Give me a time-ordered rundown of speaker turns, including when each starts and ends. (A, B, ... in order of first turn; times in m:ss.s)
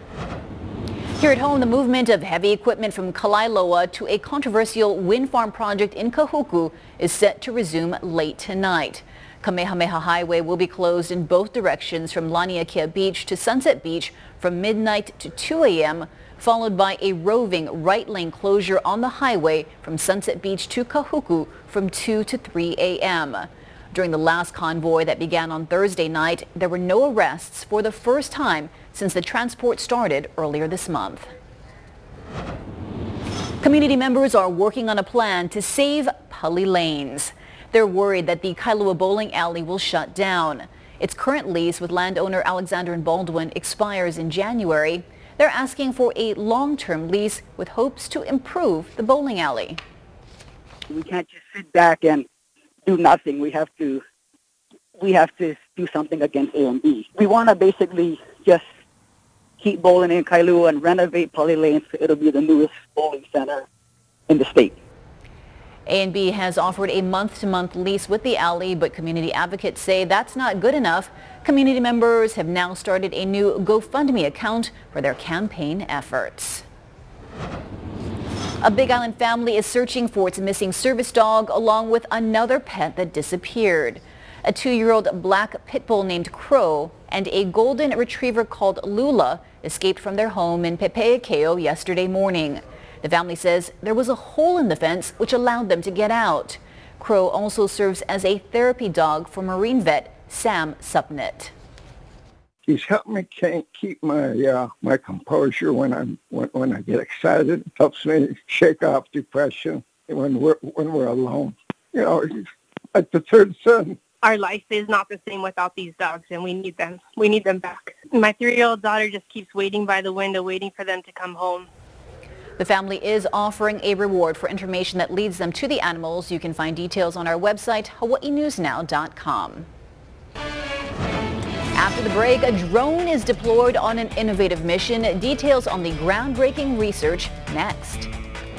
0:01.2-0:31.3 A
0:33.6-0:49.8 A
0:50.9-0:52.3 B
0:52.9-0:54.0 B
0:55.0-0:58.6 B
0:59.6-1:03.6 B
1:04.3-1:04.8 B
1:05.9-1:16.6 A
1:18.6-1:41.5 A
1:42.7-1:54.0 C
1:54.2-2:01.7 D
2:02.6-2:09.7 A
2:11.8-2:18.1 A